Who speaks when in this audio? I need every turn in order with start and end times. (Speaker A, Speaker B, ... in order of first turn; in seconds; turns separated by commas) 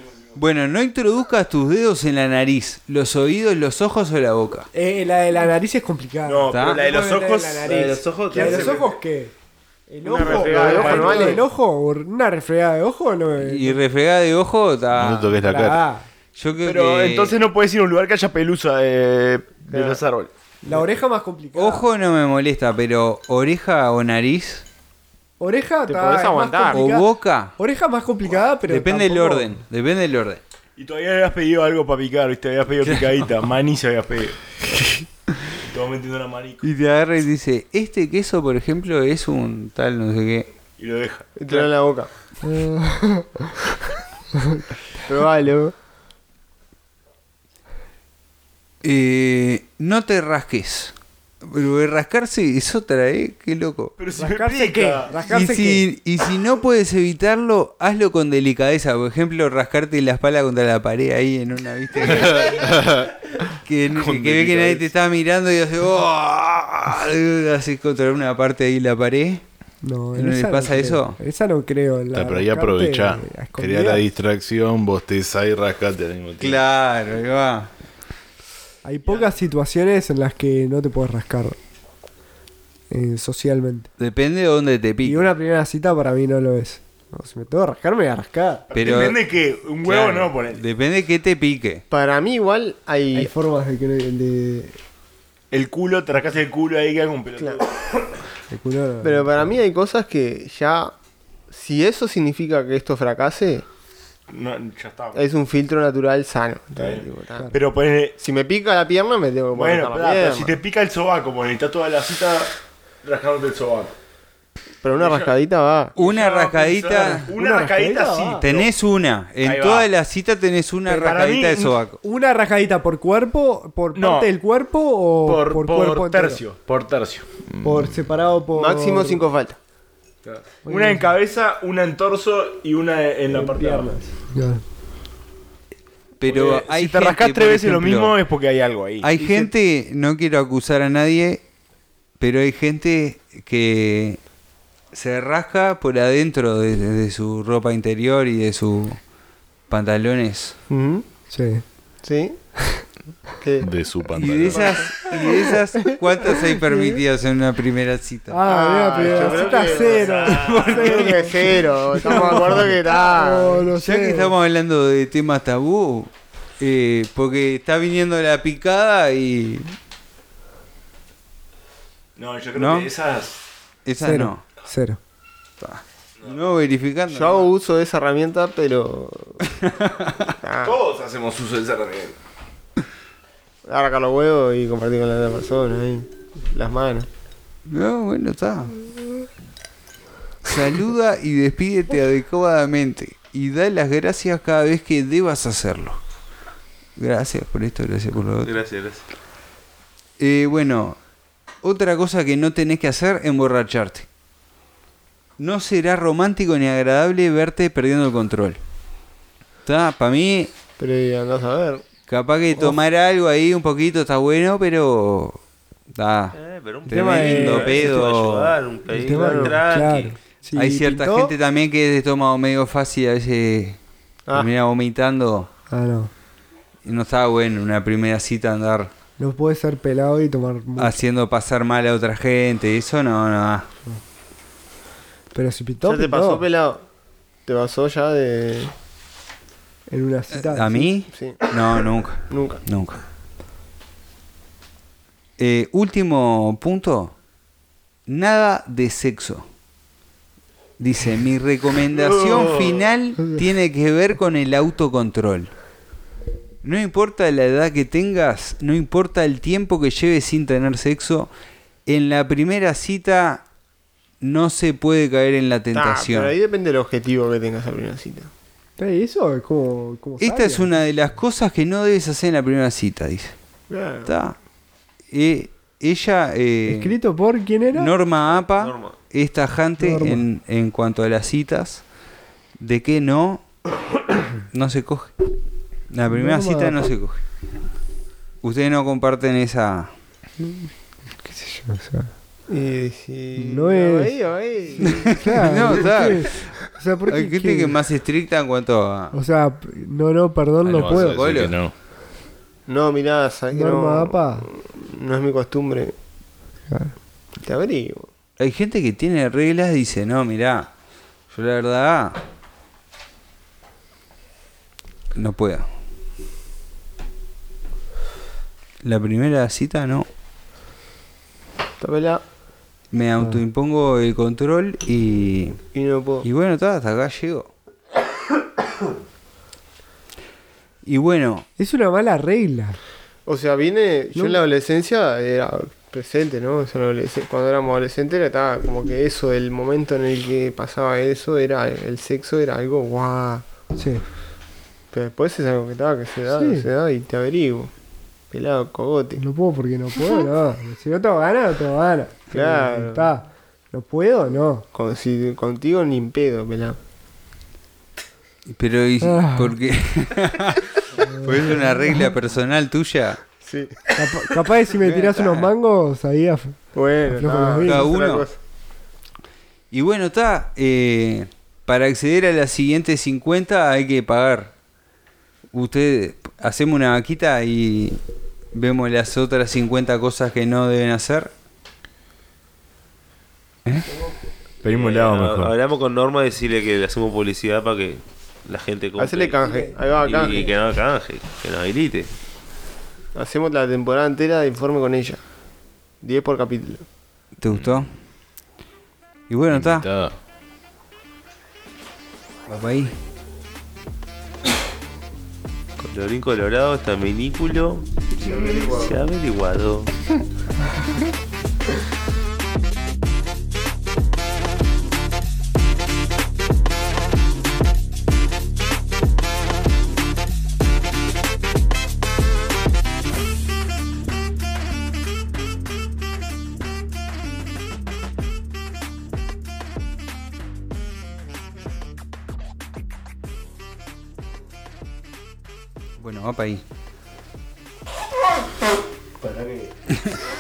Speaker A: 0.4-4.7, Speaker B: 4.7-9.3, Speaker C: 6.3-8.9, Speaker A: 6.5-6.8, Speaker D: 7.6-8.8, Speaker B: 9.9-13.8, Speaker C: 10.0-11.4, Speaker E: 10.0-11.4, Speaker A: 13.4-15.4, Speaker F: 14.9-15.8, Speaker B: 15.4-16.1, Speaker A: 16.4-17.4, Speaker C: 16.6-20.9, Speaker E: 19.7-20.1, Speaker B: 20.6-21.9, Speaker A: 21.6-24.6, Speaker B: 25.4-29.6, Speaker E: 25.9-26.9, Speaker A: 26.7-27.5, Speaker A: 28.7-30.4, Speaker C: 30.8-34.5, Speaker C: 35.6-36.7, Speaker A: 36.6-40.5, Speaker C: 40.8-41.7, Speaker E: 41.4-42.1, Speaker B: 42.4-43.6, Speaker B: 44.3-44.6, Speaker E: 45.1-45.7, Speaker A: 48.8-53.9, Speaker C: 54.0-55.2, Speaker B: 54.2-55.9, Speaker A: 55.2-62.7, Speaker F: 62.0-63.4, Speaker A: 63.6-69.4, Speaker F: 63.9-64.9, Speaker B: 69.8-74.0, Speaker A: 70.2-71.2, Speaker F: 72.1-76.6, Speaker A: 76.4-77.7, Speaker B: 78.8-81.6, Speaker B: 82.9-83.9, Speaker A: 84.0-85.3, Speaker B: 85.0-88.7, Speaker C: 88.7-90.6, Speaker A: 88.7-89.2, Speaker A: 89.8-91.8, Speaker E: 91.9-93.3, Speaker B: 93.1-94.8, Speaker C: 95.5-98.2, Speaker B: 98.5-99.4, Speaker E: 99.0-100.9, Speaker E: 101.5-103.6, Speaker C: 104.3-105.2, Speaker E: 105.1-107.5, Speaker C: 106.8-108.2, Speaker E: 108.2-110.6, Speaker C: 109.6-112.5, Speaker C: 113.0-113.9, Speaker E: 114.8-115.9, Speaker C: 115.0-115.3, Speaker A: 116.0-117.3, Speaker C: 116.0-118.7, Speaker B: 117.3-118.5, Speaker A: 118.4-122.0, Speaker C: 119.4-119.9, Speaker C: 120.9-121.8, Speaker B: 122.0-126.4, Speaker C: 124.0-124.3, Speaker C: 125.2-127.2, Speaker F: 127.5-128.0, Speaker B: 127.6-129.3, Speaker E: 128.5-129.6, Speaker C: 130.2-133.9, Speaker B: 130.7-131.1, Speaker B: 133.3-134.6, Speaker A: 136.2-138.2, Speaker C: 136.2-139.5, Speaker A: 139.0-141.4, Speaker A: 142.2-144.2, Speaker A: 144.9-149.0, Speaker A: 149.7-150.6, Speaker E: 150.7-151.1, Speaker B: 151.3-151.6, Speaker E: 152.0-152.4, Speaker E: 153.4-153.7, Speaker F: 153.6-154.9, Speaker A: 154.2-158.5, Speaker E: 154.5-155.1, Speaker B: 156.3-157.0, Speaker B: 158.3-164.3, Speaker E: 158.4-163.7, Speaker C: 158.9-161.0, Speaker D: 160.2-160.7, Speaker A: 160.4-161.3, Speaker A: 162.0-162.4, Speaker A: 163.8-169.8, Speaker C: 172.2-173.4, Speaker A: 172.6-172.9, Speaker A: 173.9-174.4, Speaker B: 174.0-175.0, Speaker A: 175.6-177.5, Speaker E: 177.1-179.4, Speaker A: 179.6-180.3, Speaker E: 180.4-180.8, Speaker C: 180.6-182.2, Speaker E: 183.7-187.1, Speaker A: 187.7-188.8, Speaker A: 190.5-196.0, Speaker A: 197.0-198.6, Speaker D: 198.4-199.0, Speaker A: 200.2-201.0, Speaker A: 201.6-204.1, Speaker A: 205.4-208.6, Speaker A: 209.7-210.5, Speaker E: 210.8-211.8, Speaker A: 212.1-215.4, Speaker B: 212.6-212.8, Speaker A: 215.9-218.6, Speaker D: 216.3-220.2, Speaker E: 216.9-217.8, Speaker B: 216.9-217.7, Speaker B: 218.9-221.3, Speaker E: 219.1-219.7, Speaker A: 220.6-223.8, Speaker A: 224.3-225.5, Speaker B: 225.7-226.1, Speaker A: 226.8-228.9, Speaker B: 229.2-231.0, Speaker A: 230.8-233.7, Speaker B: 235.3-236.5, Speaker E: 235.8-236.8, Speaker E: 237.5-238.7, Speaker B: 239.9-240.9, Speaker A: 240.3-243.0, Speaker E: 241.1-241.5, Speaker E: 242.3-242.6, Speaker A: 245.4-247.2, Speaker A: 248.1-249.5, Speaker A: 250.8-255.5, Speaker C: 252.0-252.7, Speaker A: 256.6-261.3, Speaker A: 261.9-263.5, Speaker A: 264.2-266.3, Speaker E: 265.7-268.3, Speaker B: 268.8-270.8, Speaker A: 270.2-273.4, Speaker E: 273.7-274.1, Speaker A: 274.0-274.4, Speaker A: 275.1-277.0, Speaker B: 276.7-277.9, Speaker A: 277.7-281.8, Speaker D: 278.3-279.0, Speaker B: 279.8-280.2, Speaker A: 282.6-283.4, Speaker A: 284.5-285.1, Speaker A: 285.9-287.2, Speaker B: 286.1-286.8, Speaker A: 288.4-289.9, Speaker B: 290.4-290.7, Speaker B: 291.2-292.1, Speaker E: 292.5-295.2, Speaker B: 293.4-294.1, Speaker B: 294.7-297.8, Speaker A: 294.8-299.1, Speaker B: 299.1-301.4, Speaker A: 300.6-301.6, Speaker F: 300.7-301.7, Speaker E: 302.7-305.9, Speaker B: 303.5-304.5, Speaker B: 306.7-306.9, Speaker E: 307.4-308.1, Speaker A: 308.4-310.7, Speaker A: 311.3-312.2, Speaker A: 315.1-315.7, Speaker A: 318.8-320.1, Speaker E: 321.8-322.2, Speaker A: 322.9-325.6, Speaker E: 325.7-326.3, Speaker A: 326.2-327.5, Speaker A: 330.9-331.5, Speaker B: 331.6-332.8, Speaker E: 333.3-343.4, Speaker B: 334.1-334.4, Speaker B: 343.8-344.0, Speaker E: 344.9-347.7, Speaker B: 346.3-346.7, Speaker E: 348.3-349.2, Speaker B: 349.2-354.6, Speaker E: 352.3-353.1, Speaker E: 354.7-356.8, Speaker A: 358.5-363.2, Speaker B: 359.0-359.6, Speaker B: 361.0-362.1, Speaker E: 363.4-363.8, Speaker B: 364.0-367.9, Speaker A: 364.7-365.5, Speaker E: 366.7-368.4, Speaker A: 367.6-368.3, Speaker A: 369.7-374.5, Speaker A: 375.5-378.0, Speaker A: 378.5-381.3, Speaker C: 384.6-385.5, Speaker D: 384.7-389.5, Speaker E: 389.0-390.5, Speaker B: 389.5-389.7, Speaker D: 390.0-392.1, Speaker E: 393.1-395.2, Speaker E: 396.0-396.9, Speaker A: 397.4-397.9, Speaker F: 397.5-397.8, Speaker A: 399.3-399.9, Speaker F: 399.5-400.2, Speaker A: 402.5-402.9, Speaker D: 405.8-409.9, Speaker E: 408.3-408.9, Speaker A: 436.0-436.6, Speaker C: 439.2-439.7